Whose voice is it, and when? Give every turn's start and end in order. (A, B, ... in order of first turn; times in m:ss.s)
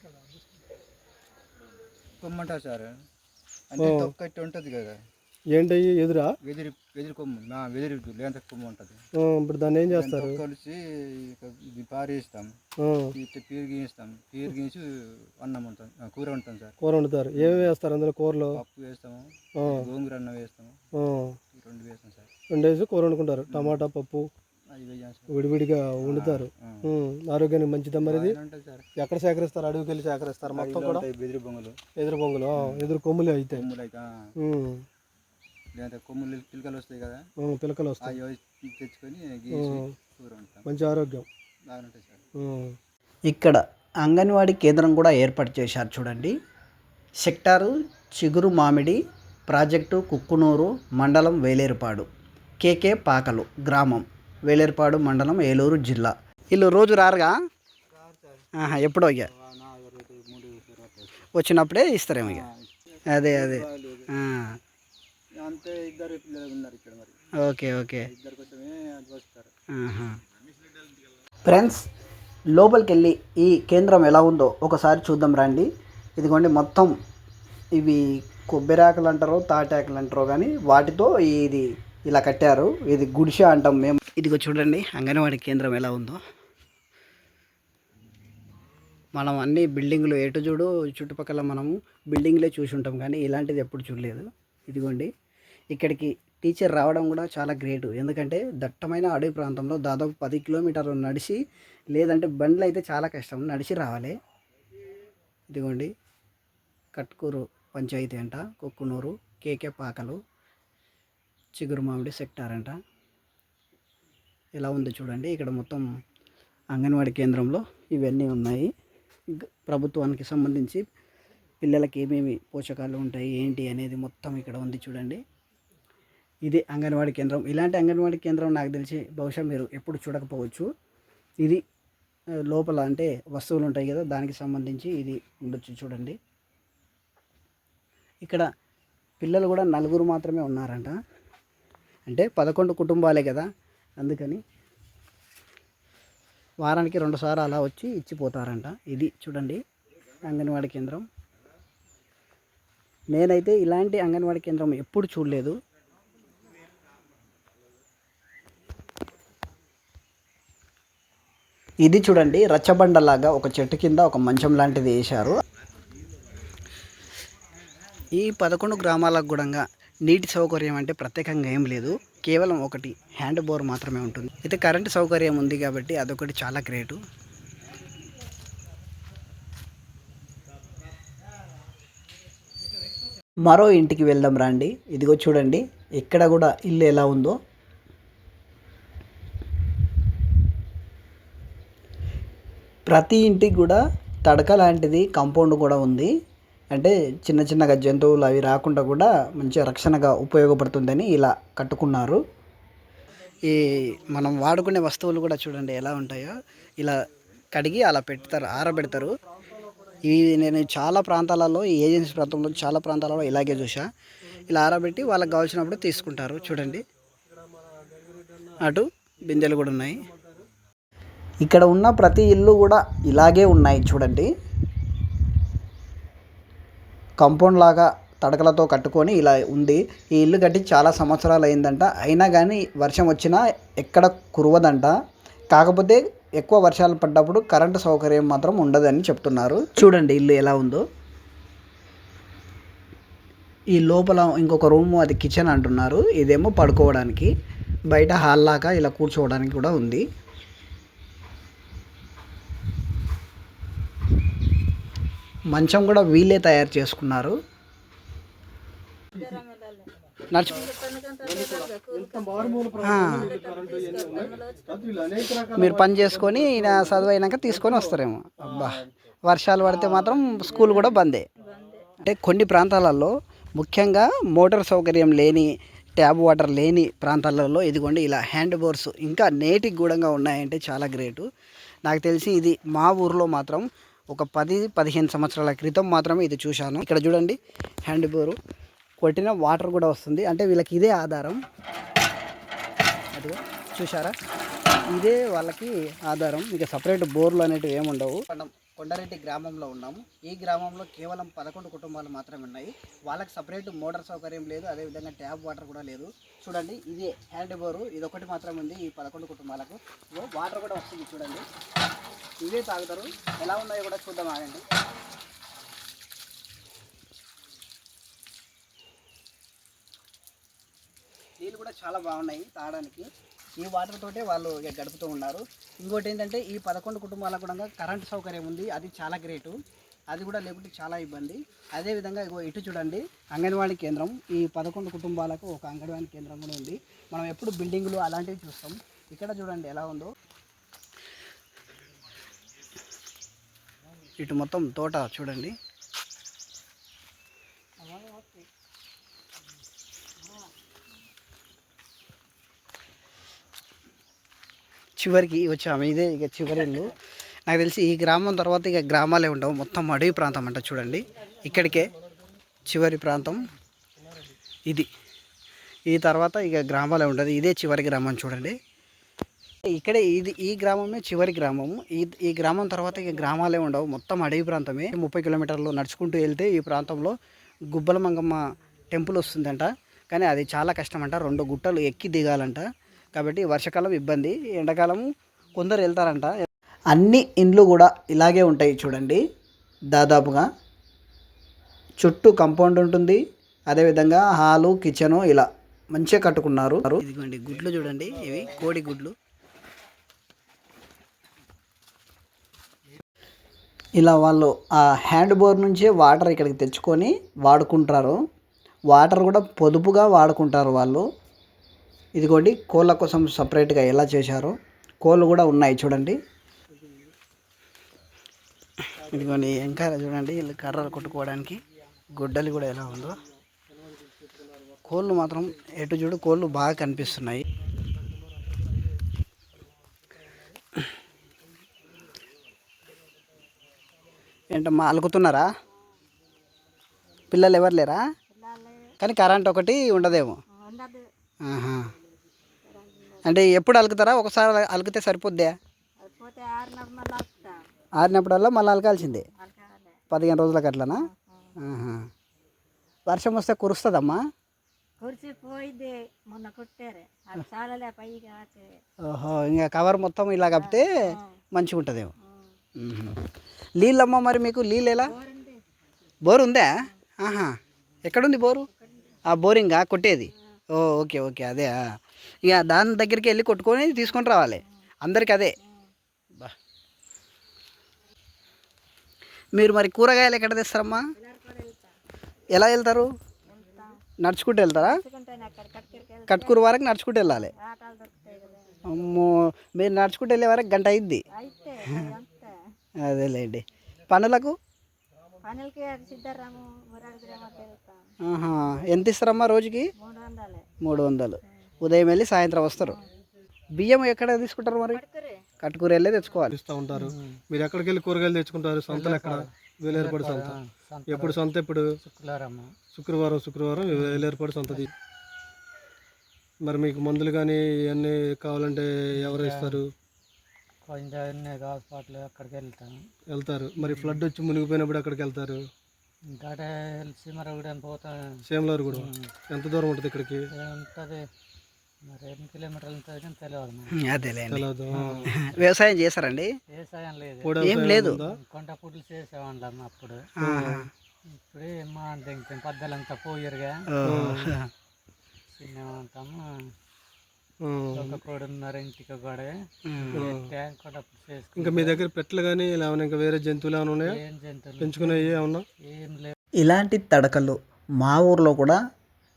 0:02.2-0:02.9 A
0:03.7-0:05.0 A
0:03.8-0:04.1 B
0:05.5-0:06.4 B
0:06.4-0:09.0 A
0:09.2-0:10.4 B
0:09.9-0:12.6 A
0:12.8-0:13.1 B
0:13.1-0:16.8 A
0:16.8-0:18.6 B
0:17.3-0:17.7 A
0:18.5-0:20.8 A
0:19.6-0:19.9 B
0:20.9-0:21.4 B
0:21.5-0:22.3 A
0:22.5-0:24.3 B
0:23.5-0:23.8 A
0:24.7-0:25.5 A
0:25.3-0:28.4 B
0:26.0-0:26.9 A
0:28.0-0:28.9 A
0:29.0-0:31.0 B
0:30.5-0:31.8 A
0:32.0-0:33.6 B
0:32.5-0:32.8 A
0:33.5-0:34.3 A
0:34.4-0:34.8 B
0:35.7-0:37.2 A
0:37.4-0:38.2 B
0:38.0-0:40.7 A
0:39.5-0:39.9 B
0:40.6-0:41.2 B
0:41.7-0:42.2 A
0:42.4-0:42.8 B
0:43.3-0:46.4 C
0:47.2-0:52.1 C
0:52.6-0:57.4 C
0:57.9-0:58.5 A
0:58.6-0:59.3 C
0:59.3-1:01.3 A
1:01.3-1:02.4 C
1:02.2-1:04.1 A
1:03.1-1:04.6 C
1:05.4-1:07.1 A
1:07.4-1:08.1 C
1:08.0-1:09.5 A
1:09.7-1:10.2 C
1:11.4-1:11.9 C
1:12.5-1:16.9 C
1:17.7-1:26.2 C
1:29.2-1:35.1 C
1:35.7-1:41.4 C
1:41.9-1:44.2 C
1:45.5-1:45.9 C
1:46.9-1:50.2 C
1:51.6-1:52.8 C
1:54.6-1:55.8 C
1:56.7-1:58.7 C
1:59.3-2:00.8 C
2:01.6-2:05.2 C
2:06.4-2:10.7 C
2:12.4-2:16.2 C
2:18.2-2:18.5 C
2:19.2-2:21.0 C
2:22.1-2:24.4 C
2:26.6-2:29.6 C
2:30.2-2:31.1 C
2:33.1-2:35.6 C
2:41.8-2:45.4 C
2:48.1-2:57.0 C
3:03.4-3:07.4 C
3:12.9-3:16.1 C
3:16.7-3:22.2 C
3:23.4-3:29.2 C
3:29.4-3:30.0 B
3:30.0-3:33.9 C
3:34.5-3:36.8 C
3:37.3-3:38.6 B
3:38.6-3:40.0 C
3:39.3-3:40.4 B
3:41.4-3:44.3 C
3:47.2-3:55.0 C
3:55.5-4:00.8 C
4:03.7-4:07.3 C
4:07.9-4:10.0 C
4:15.5-4:17.4 C
4:19.1-4:24.8 D
4:20.3-4:20.7 C
4:21.2-4:27.9 B
4:22.8-4:23.3 C
4:25.5-4:31.2 C
4:29.6-4:30.4 B
4:30.4-4:31.9 D
4:32.0-4:41.3 C
4:41.8-4:48.4 C
4:49.0-4:51.4 C
4:53.1-4:54.1 C
4:54.9-5:11.5 C
5:12.4-5:14.6 C
5:21.4-5:23.1 C
5:23.6-5:29.6 C
5:30.1-5:40.1 C
5:44.2-5:45.6 C
5:47.8-5:48.4 D
5:55.0-5:57.0 C
5:57.5-6:01.9 C
6:02.6-6:03.5 C
6:05.9-6:08.6 C
6:09.6-6:17.2 C
6:17.7-6:25.0 C
6:25.6-6:29.2 C
6:29.9-6:30.5 C
6:32.0-6:39.1 C
6:44.0-6:48.2 C
6:48.9-6:51.0 C
6:52.2-6:56.2 C
6:58.8-7:03.2 C
7:04.8-7:07.4 C
7:14.5-7:15.5 C
7:17.3-7:18.0 C
7:18.3-7:18.9 D
7:19.0-7:20.4 C
7:20.5-7:21.0 D
7:21.4-7:21.9 C
7:22.6-7:23.4 D
7:23.2-7:25.5 C
7:26.0-7:27.6 D
7:28.0-7:29.3 C
7:29.1-7:30.0 D
7:30.1-7:31.0 C
7:31.0-7:31.6 D
7:31.6-7:32.1 C
7:33.1-7:34.2 C
7:35.0-7:38.8 D
7:39.0-7:41.0 C
7:40.5-7:41.4 D
7:41.5-7:42.1 C
7:42.2-7:42.5 D
7:42.8-7:43.2 C
7:43.8-7:45.1 C
7:45.0-7:45.6 D
7:46.2-7:48.7 C
7:48.7-7:49.2 D
7:49.3-7:55.5 C
7:55.6-7:55.9 D
7:59.5-8:01.1 C
8:01.2-8:02.0 D
8:02.5-8:03.1 C
8:03.5-8:04.0 D
8:04.2-8:05.0 C
8:04.7-8:06.7 D
8:06.3-8:07.5 C
8:07.4-8:08.9 D
8:08.8-8:11.2 C
8:11.3-8:12.6 D
8:13.0-8:14.6 C
8:15.4-8:18.0 D
8:18.2-8:19.9 C
8:20.0-8:20.7 D
8:20.8-8:23.0 C
8:21.4-8:21.7 D
8:22.8-8:23.1 D
8:23.8-8:25.0 C
8:24.9-8:25.4 D
8:25.6-8:26.5 C
8:26.5-8:30.6 B
8:26.9-8:27.4 E
8:28.9-8:31.4 E
8:31.1-8:31.9 B
8:32.0-8:32.8 E
8:32.9-8:34.9 B
8:33.9-8:34.9 E
8:36.6-8:39.9 B
8:39.2-8:39.8 E
8:40.8-8:43.0 E
8:43.3-8:45.6 B
8:43.8-8:44.2 E
8:46.3-8:48.3 E
8:48.5-8:50.4 B
8:48.9-8:49.3 E
8:50.5-8:51.2 E
8:52.0-8:53.9 E
8:53.9-8:54.7 C
8:54.5-8:55.3 B
8:54.9-8:55.3 E
8:55.3-8:56.5 C
8:56.7-9:00.3 E
8:57.4-8:58.4 B
8:57.6-8:58.2 C
9:00.4-9:00.9 B
9:00.4-9:00.9 C
9:01.3-9:03.8 E
9:03.9-9:04.7 C
9:04.0-9:04.5 B
9:05.6-9:06.4 E
9:07.6-9:08.2 B
9:07.9-9:12.0 E
9:09.8-9:10.3 C
9:10.1-9:10.5 B
9:11.6-9:14.2 B
9:14.0-9:16.3 E
9:14.8-9:15.6 B
9:16.6-9:18.8 C